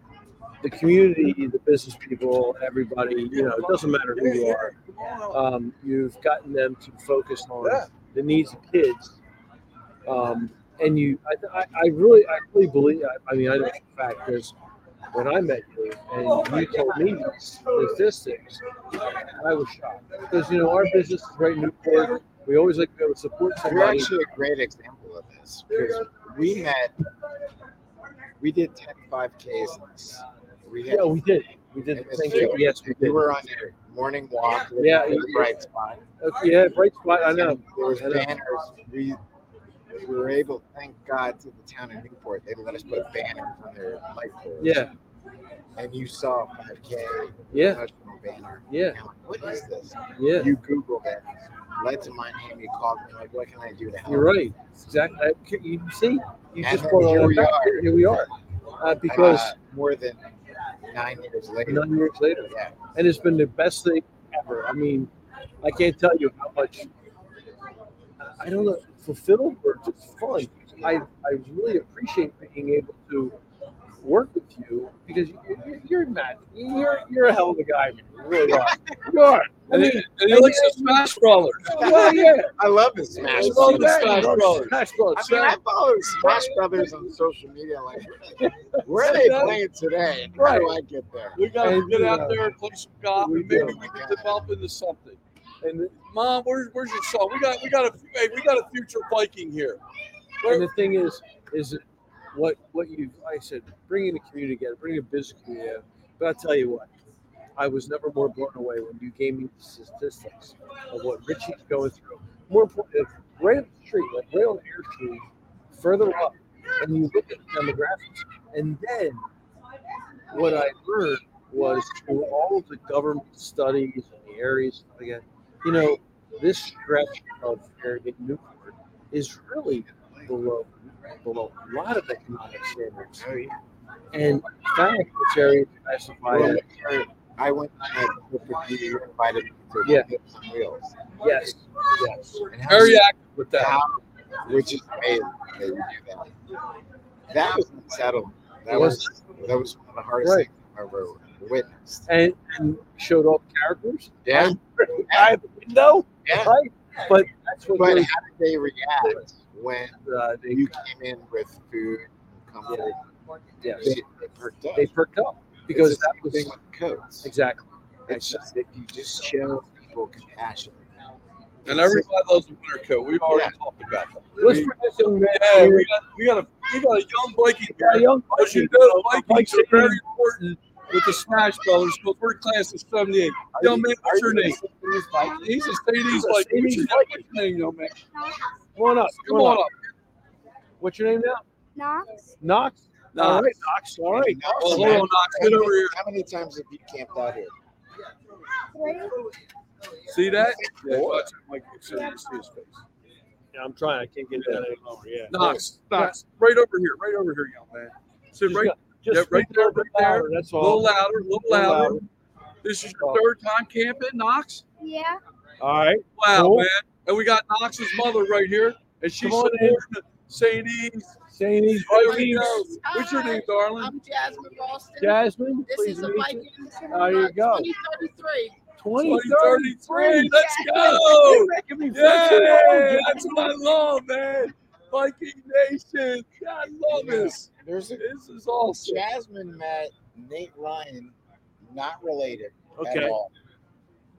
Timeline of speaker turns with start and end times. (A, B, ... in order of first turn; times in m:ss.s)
0:00.6-0:04.7 A
0:03.3-0:05.4 B
0:05.3-0:09.2 A
0:07.6-0:07.9 B
0:10.1-0:14.5 A
0:15.1-0:18.6 A
0:16.4-0:17.1 B
0:19.4-0:24.2 A
0:23.6-0:27.0 C
0:28.4-0:36.0 C
0:30.9-0:33.3 A
0:34.8-0:35.5 A
0:36.2-0:38.3 A
0:37.1-0:39.2 C
0:40.0-0:44.9 C
0:44.6-0:44.9 A
0:45.8-0:54.4 C
0:47.5-0:47.8 A
0:48.7-0:49.0 A
0:50.2-0:50.5 A
0:54.1-0:59.5 A
0:56.6-0:58.3 C
0:59.0-1:00.3 C
1:00.8-1:02.8 C
1:01.7-1:05.1 A
1:05.6-1:06.9 A
1:08.2-1:13.4 A
1:14.0-1:21.0 A
1:18.4-1:19.0 C
1:19.7-1:22.5 B
1:21.6-1:22.5 A
1:21.8-1:31.4 C
1:23.2-1:25.5 A
1:23.3-1:25.6 B
1:28.4-1:29.6 A
1:28.9-1:29.6 B
1:30.4-1:30.7 B
1:30.4-1:30.7 A
1:31.4-1:39.8 B
1:31.6-1:32.5 A
1:33.2-1:33.8 A
1:33.5-1:34.5 C
1:40.4-1:40.7 B
1:40.4-1:46.9 A
1:47.6-1:59.2 A
2:00.3-2:13.3 A
2:13.2-2:13.6 C
2:14.1-2:16.6 A
2:16.3-2:21.2 C
2:21.2-2:22.4 A
2:22.5-2:26.3 C
2:22.6-2:23.8 B
2:27.3-2:32.1 C
2:28.7-2:29.2 A
2:30.2-2:30.5 A
2:32.1-2:38.1 A
2:34.2-2:35.4 C
2:36.2-2:36.6 C
2:37.8-2:43.0 C
2:40.0-2:40.7 A
2:42.7-2:42.9 A
2:43.6-2:44.0 A
2:43.7-2:45.0 C
2:44.8-2:46.6 A
2:45.7-2:47.3 C
2:47.2-2:48.5 A
2:48.1-2:50.9 C
2:51.6-2:54.7 B
2:51.7-2:52.1 C
2:53.3-2:53.5 C
2:54.4-2:55.9 A
2:55.3-3:04.6 B
2:57.7-3:00.0 A
3:03.6-3:05.4 C
3:05.3-3:05.6 D
3:05.3-3:08.1 B
3:06.1-3:07.3 A
3:08.1-3:08.4 D
3:08.8-3:09.6 A
3:09.1-3:09.9 B
3:10.8-3:11.4 A
3:11.8-3:12.4 D
3:12.4-3:15.2 A
3:13.2-3:13.6 B
3:14.1-3:17.5 C
3:14.6-3:16.0 B
3:18.7-3:19.2 D
3:20.1-3:22.8 B
3:20.5-3:20.7 C
3:20.9-3:21.2 A
3:23.5-3:26.2 A
3:24.4-3:24.6 B
3:25.3-3:32.1 B
3:28.5-3:32.0 A
3:32.6-3:34.6 B
3:33.0-3:33.2 A
3:34.8-3:35.2 D
3:35.6-3:36.7 A
3:36.2-3:44.0 B
3:39.2-3:39.8 A
3:41.3-3:42.7 A
3:41.9-3:48.6 E
3:45.0-3:47.7 A
3:48.8-3:53.5 A
3:49.0-3:57.5 B
3:50.3-3:51.2 E
3:56.9-3:58.1 C
3:58.0-3:59.0 B
3:58.7-4:03.3 C
4:02.8-4:03.2 A